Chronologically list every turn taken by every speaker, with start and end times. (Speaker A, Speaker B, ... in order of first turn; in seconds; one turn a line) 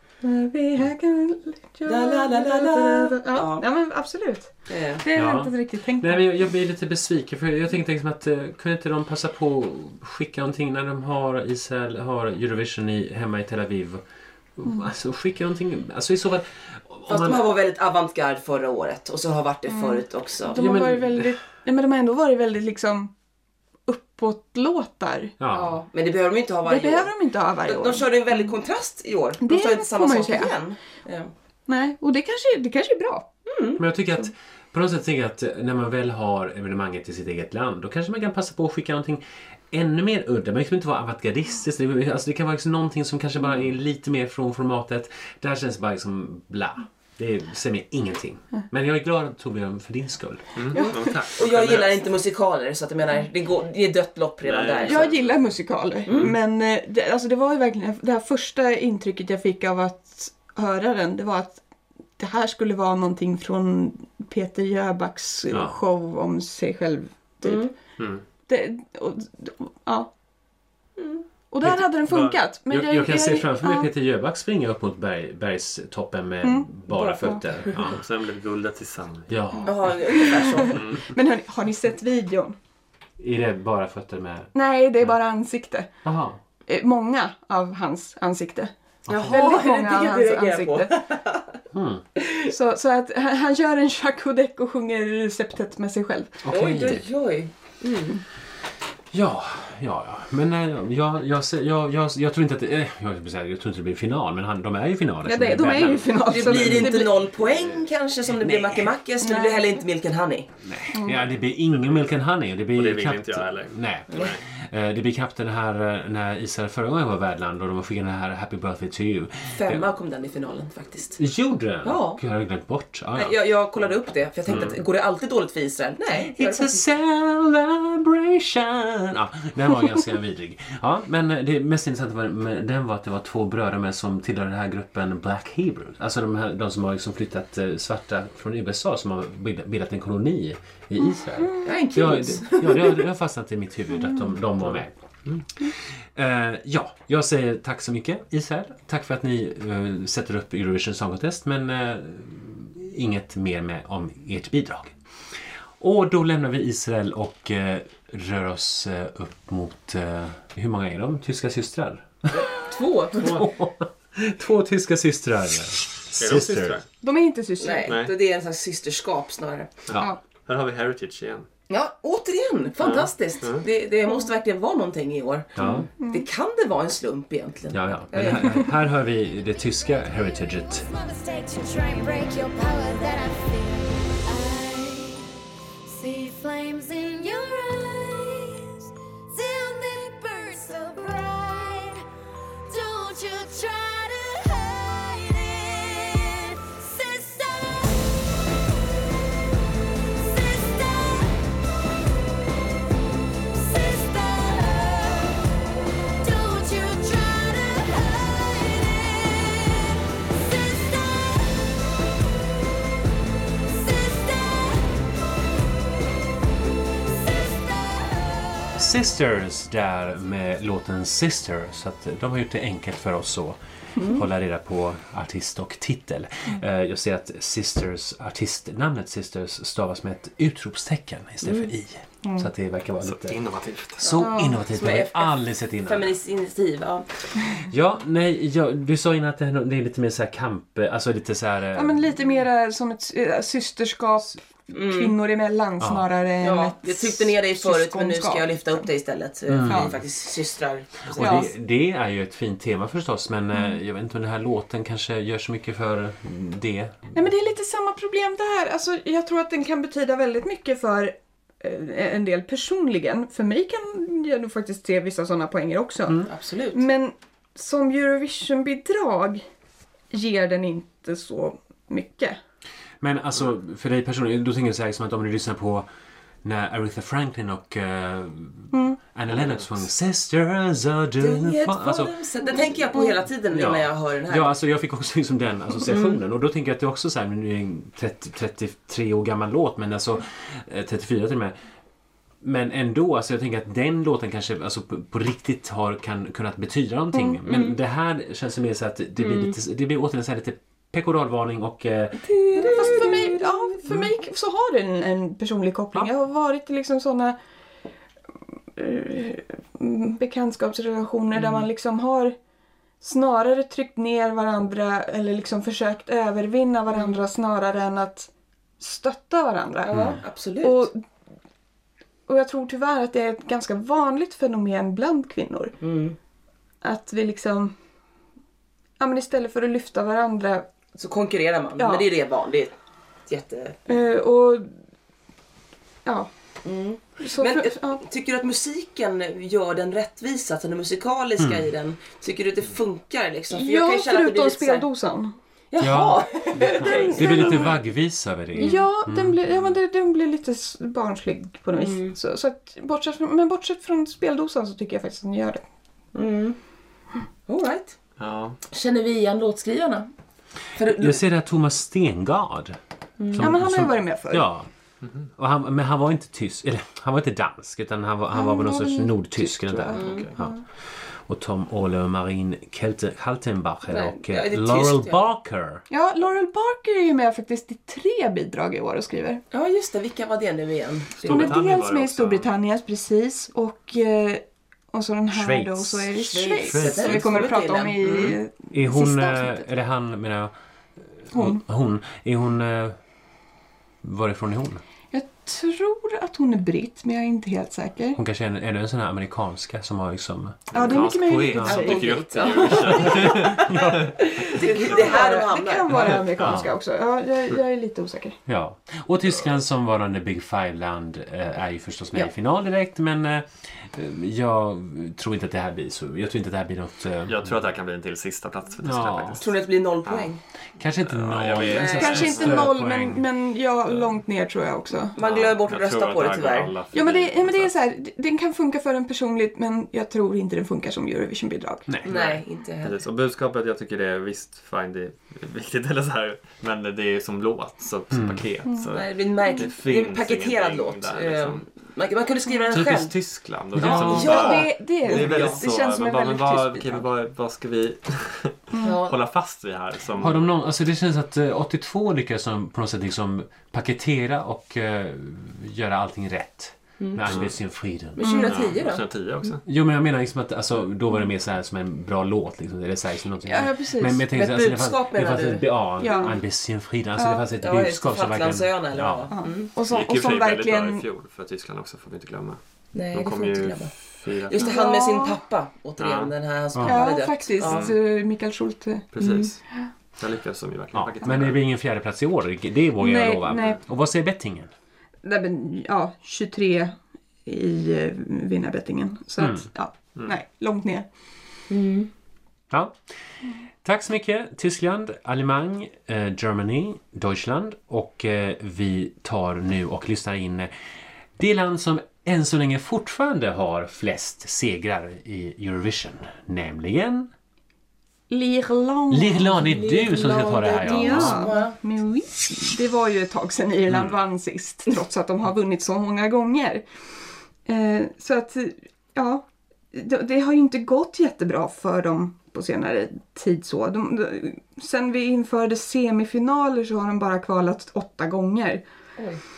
Speaker A: 0.2-6.5
Speaker B: 1.9-3.6
Speaker B: 4.7-5.0
Speaker C: 5.1-14.0
Speaker C: 14.6-17.5
Speaker B: 17.1-20.6
Speaker A: 19.7-23.1
Speaker C: 20.5-21.3
Speaker A: 23.9-25.4
Speaker C: 25.4-25.8
Speaker B: 25.5-27.1
Speaker A: 26.6-28.5
Speaker B: 27.6-31.3
Speaker A: 29.4-30.5
Speaker A: 31.7-33.3
Speaker B: 33.5-33.8
Speaker C: 33.8-50.6
Speaker D: 50.5-52.0
Speaker A: 50.7-51.1
Speaker B: 50.7-55.0
Speaker D: 54.4-55.4
Speaker A: 54.8-61.6
Speaker B: 56.0-56.3
Speaker A: 62.2-67.7
Speaker C: 65.5-65.8
Speaker B: 67.4-67.7
Speaker D: 68.0-68.2
Speaker A: 68.5-70.1
Speaker B: 71.0-71.2
Speaker A: 71.5-73.9
Speaker C: 71.6-78.0
Speaker A: 76.4-76.7
Speaker B: 76.9-77.7
Speaker D: 77.8-79.3
Speaker C: 79.3-80.5
Speaker B: 79.7-80.8
Speaker A: 79.7-82.5
Speaker D: 80.7-81.0
Speaker C: 83.2-84.5
Speaker A: 84.5-85.9
Speaker C: 86.0-86.4
Speaker A: 86.7-88.7
Speaker C: 89.0-89.5
Speaker B: 89.1-91.6
Speaker A: 89.2-90.9
Speaker C: 91.7-92.0
Speaker B: 92.2-92.5
Speaker A: 92.5-96.5
Speaker C: 96.4-97.0
Speaker B: 96.5-98.2
Speaker C: 99.1-107.1
Speaker A: 105.2-107.2
Speaker B: 106.2-110.5
Speaker C: 108.3-109.0
Speaker A: 109.2-109.7
Speaker C: 110.6-119.9
Speaker A: 110.9-111.2
Speaker D: 111.8-112.1
Speaker D: 112.7-114.4
Speaker B: 119.5-121.2
Speaker C: 121.2-123.3
Speaker B: 121.8-122.2
Speaker B: 123.1-126.8
Speaker D: 124.5-124.8
Speaker C: 124.5-124.8
Speaker C: 126.1-144.9
Speaker A: 141.4-141.7
Speaker B: 141.6-143.0
Speaker D: 144.6-145.4
Speaker C: 146.1-154.9
Speaker C: 155.8-162.5
Speaker B: 162.3-163.4
Speaker C: 163.2-166.8
Speaker D: 163.2-163.4
Speaker D: 166.2-166.8
Speaker A: 167.0-168.0
Speaker B: 167.6-169.8
Speaker D: 167.8-168.1
Speaker D: 169.9-171.5
Speaker B: 171.7-178.7
Speaker D: 172.8-173.7
Speaker C: 175.6-175.9
Speaker A: 176.0-176.2
Speaker C: 177.7-180.9
Speaker E: 179.3-185.3
Speaker E: 185.8-192.0
Speaker E: 192.7-198.1
Speaker E: 200.1-201.4
Speaker E: 203.5-205.4
Speaker E: 206.2-211.8
Speaker E: 213.6-215.1
Speaker E: 217.0-218.8
Speaker C: 218.8-233.4
Speaker B: 231.4-231.7
Speaker D: 233.0-234.2
Speaker C: 234.0-236.1
Speaker B: 234.0-237.1
Speaker A: 234.2-234.5
Speaker C: 237.6-242.0
Speaker A: 241.7-248.8
Speaker B: 244.7-245.2
Speaker C: 245.8-246.0
Speaker B: 246.4-251.4
Speaker C: 249.5-250.0
Speaker A: 249.6-249.9
Speaker C: 251.1-257.1
Speaker A: 251.2-251.5
Speaker A: 257.1-269.4
Speaker B: 266.3-266.8
Speaker A: 270.1-272.4
Speaker C: 273.0-275.9
Speaker C: 276.4-282.1
Speaker A: 278.7-279.0
Speaker D: 279.3-279.7
Speaker B: 281.2-284.5
Speaker C: 283.5-291.6
Speaker B: 285.9-286.2
Speaker C: 292.4-303.0
Speaker B: 297.4-297.8
Speaker B: 299.2-299.6
Speaker B: 302.2-303.8
Speaker A: 302.6-307.4
Speaker A: 308.7-312.3
Speaker A: 313.0-321.0
Speaker B: 316.9-317.2
Speaker B: 319.9-320.9
Speaker C: 319.9-320.2
Speaker A: 322.3-325.8
Speaker B: 325.8-326.1
Speaker A: 326.8-327.7
Speaker A: 329.0-330.6
Speaker B: 330.9-332.7
Speaker A: 331.8-332.1
Speaker B: 333.3-333.8
Speaker A: 333.9-334.7
Speaker A: 336.0-336.3
Speaker B: 336.6-344.9
Speaker A: 337.2-338.0
Speaker C: 341.4-341.7
Speaker A: 343.5-345.4
Speaker B: 345.7-347.6
Speaker C: 345.8-349.4
Speaker A: 346.8-347.7
Speaker B: 348.5-348.8
Speaker A: 348.6-355.6
Speaker B: 351.7-352.1
Speaker B: 356.1-356.6
Speaker B: 357.5-357.9
Speaker D: 358.2-358.6
Speaker B: 358.7-360.1
Speaker B: 360.7-361.2
Speaker C: 360.9-362.8
Speaker B: 363.2-363.4
Speaker C: 363.3-364.7
Speaker A: 363.4-364.5
Speaker D: 365.0-365.3
Speaker C: 365.4-370.5
Speaker A: 368.3-370.6
Speaker B: 369.9-370.3
Speaker D: 370.0-370.3
Speaker C: 371.1-375.8
Speaker B: 373.9-375.2
Speaker A: 375.9-379.4
Speaker B: 379.5-381.5
Speaker D: 381.1-382.5
Speaker A: 381.2-389.7
Speaker C: 385.3-387.5
Speaker B: 386.3-388.4
Speaker D: 388.0-388.3
Speaker C: 388.7-390.5
Speaker C: 391.2-393.0
Speaker A: 391.3-391.6
Speaker C: 394.0-394.8
Speaker A: 395.1-398.2
Speaker C: 398.1-401.0
Speaker D: 400.7-404.1
Speaker A: 400.7-402.6
Speaker C: 401.5-401.8
Speaker B: 401.6-406.2
Speaker C: 403.0-403.9
Speaker A: 404.6-408.4
Speaker D: 404.8-405.3
Speaker D: 405.9-406.2
Speaker C: 406.4-406.7
Speaker C: 408.5-417.5
Speaker D: 417.3-419.5
Speaker C: 418.8-419.4
Speaker B: 419.4-420.4
Speaker D: 420.0-420.3
Speaker C: 420.8-423.2
Speaker D: 421.0-422.7
Speaker B: 421.7-422.5
Speaker A: 422.0-425.1
Speaker B: 425.1-426.7
Speaker D: 425.1-427.7
Speaker A: 426.9-431.9
Speaker C: 431.9-432.1
Speaker B: 432.0-433.0
Speaker D: 432.0-441.6
Speaker C: 438.1-438.4
Speaker A: 438.7-439.7
Speaker B: 438.9-443.1
Speaker C: 442.7-443.1
Speaker D: 442.7-450.4
Speaker C: 443.7-444.6
Speaker B: 443.8-445.6
Speaker A: 443.8-447.1
Speaker A: 448.7-449.0
Speaker B: 448.8-449.1
Speaker C: 450.2-458.3
Speaker B: 457.0-457.3
Speaker D: 457.2-457.5
Speaker B: 458.1-459.0
Speaker A: 458.2-458.6
Speaker D: 458.4-459.6
Speaker C: 459.6-469.3
Speaker A: 463.4-464.2
Speaker B: 464.3-466.3
Speaker A: 466.0-466.4
Speaker A: 467.2-467.4
Speaker B: 467.6-469.7
Speaker A: 469.3-471.0
Speaker D: 469.9-472.6
Speaker B: 472.9-477.9
Speaker D: 473.1-474.7
Speaker A: 474.6-475.4
Speaker D: 476.0-476.3
Speaker C: 476.7-477.0
Speaker A: 476.8-479.1
Speaker D: 477.6-478.0
Speaker D: 479.1-479.6
Speaker B: 479.2-479.5
Speaker D: 480.2-481.6
Speaker C: 480.9-484.7
Speaker A: 483.0-483.8
Speaker A: 485.2-491.1
Speaker C: 489.4-489.6
Speaker B: 491.7-492.1
Speaker C: 492.7-492.9
Speaker C: 493.8-500.7
Speaker C: 501.4-507.3
Speaker A: 508.3-510.2
Speaker C: 509.1-511.4
Speaker B: 509.6-511.8
Speaker A: 510.7-516.8
Speaker A: 517.6-528.8